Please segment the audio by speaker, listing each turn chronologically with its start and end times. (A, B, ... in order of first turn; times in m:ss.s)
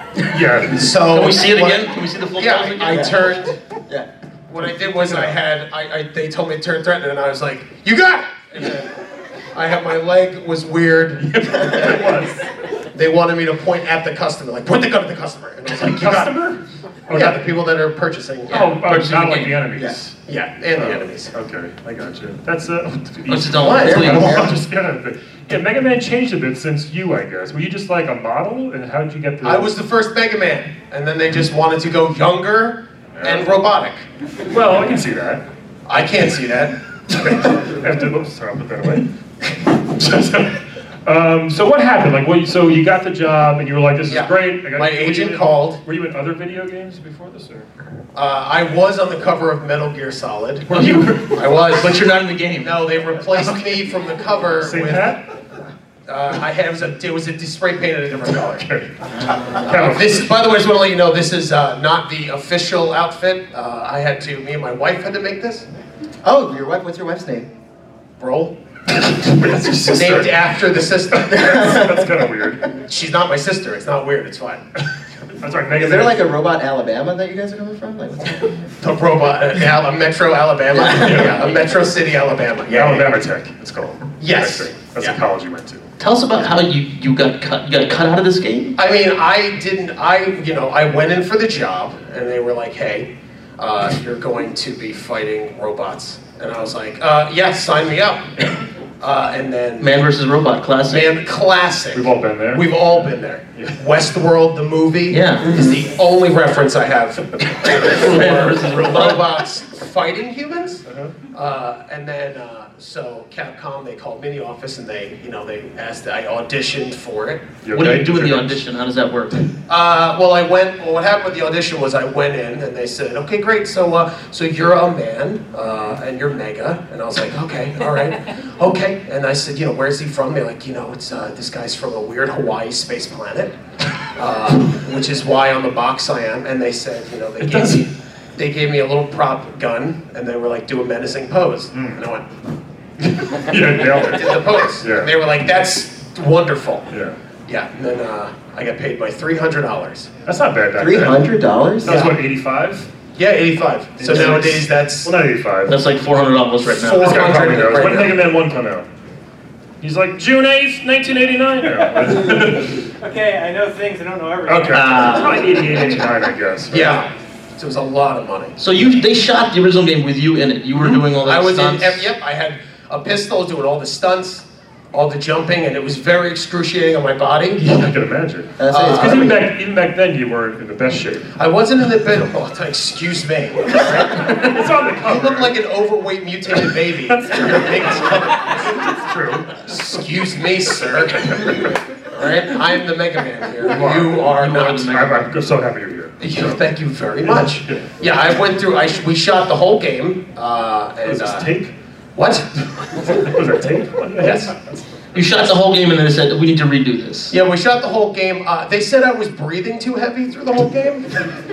0:00.3-0:01.0 A
0:00.7-0:03.6 B
0:01.1-0:03.3 C
0:02.9-0:04.1 D
0:04.5-0:09.0 B
0:05.0-0:05.4 A
0:09.5-0:12.0 B
0:11.2-0:12.4 A
0:12.9-0:16.3 B
0:15.7-0:17.4 A
0:17.1-0:18.7 B
0:18.5-0:20.2 A
0:18.5-0:19.6 C
0:20.3-0:21.3 B
0:20.7-0:29.7 A
0:23.3-0:24.3 C
0:23.6-0:24.5 B
0:23.8-0:24.6 D
0:29.4-0:34.0 B
0:33.2-0:33.6 A
0:34.5-0:35.4 A
0:35.9-0:37.2 B
0:37.2-0:47.7 A
0:44.1-0:45.8 B
0:48.2-0:50.7 B
0:50.7-0:51.3 A
0:50.7-0:52.8 C
0:51.3-0:52.0 B
0:52.6-0:55.2 B
0:54.6-0:55.2 A
0:56.1-0:58.7 B
0:58.1-1:00.3 A
0:59.2-0:59.7 D
0:59.6-1:05.7 B
1:06.2-1:07.5 D
1:08.2-1:08.6 B
1:08.9-1:10.5 A
1:09.8-1:11.8 B
1:11.1-1:12.7 A
1:11.4-1:12.1 D
1:12.9-1:14.6 B
1:15.3-1:16.2 A
1:15.8-1:18.7 D
1:18.8-1:23.1 B
1:20.8-1:21.6 A
1:22.7-1:25.9 A
1:24.2-1:25.2 B
1:26.0-1:28.8 C
1:28.8-1:38.3 B
1:39.0-1:39.9 B
1:39.8-1:41.1 C
1:40.9-1:57.5 B
1:41.9-1:42.7 A
1:43.6-1:43.8 A
1:45.1-1:45.5 C
1:47.7-1:47.9 A
1:47.7-1:49.2 C
1:50.9-1:51.1 A
1:57.6-1:58.6 A
1:57.7-1:59.5 C
1:59.7-2:13.5 B
2:14.1-2:22.3 B
2:17.4-2:17.9 A
2:21.7-2:22.0 A
2:23.0-2:25.1 A
2:23.8-2:26.9 B
2:26.9-2:27.2 A
2:27.5-2:30.1 B
2:30.2-2:31.3 A
2:30.8-2:31.9 D
2:31.8-2:32.9 A
2:31.8-2:32.1 B
2:33.2-2:35.1 B
2:34.0-2:35.8 A
2:35.7-2:37.3 C
2:36.7-2:38.2 B
2:37.0-2:38.9 A
2:39.8-2:42.9 A
2:42.3-2:45.4 E
2:44.5-2:47.0 A
2:44.7-2:45.7 C
2:46.7-2:48.6 B
2:48.6-2:52.1 C
2:50.8-2:57.6 B
2:57.6-3:01.3 A
2:58.6-2:59.4 D
2:58.7-2:59.3 B
3:01.4-3:04.5 B
3:04.1-3:05.6 A
3:05.0-3:08.8 B
3:07.1-3:10.0 A
3:09.5-3:14.9 B
3:11.2-3:11.7 A
3:13.6-3:16.7 A
3:14.2-3:15.2 C
3:16.2-3:21.5 B
3:17.2-3:17.9 A
3:21.0-3:21.7 A
3:22.2-3:23.2 B
3:23.0-3:24.6 A
3:24.2-3:24.5 B
3:25.1-3:27.4 C
3:27.3-3:31.3 B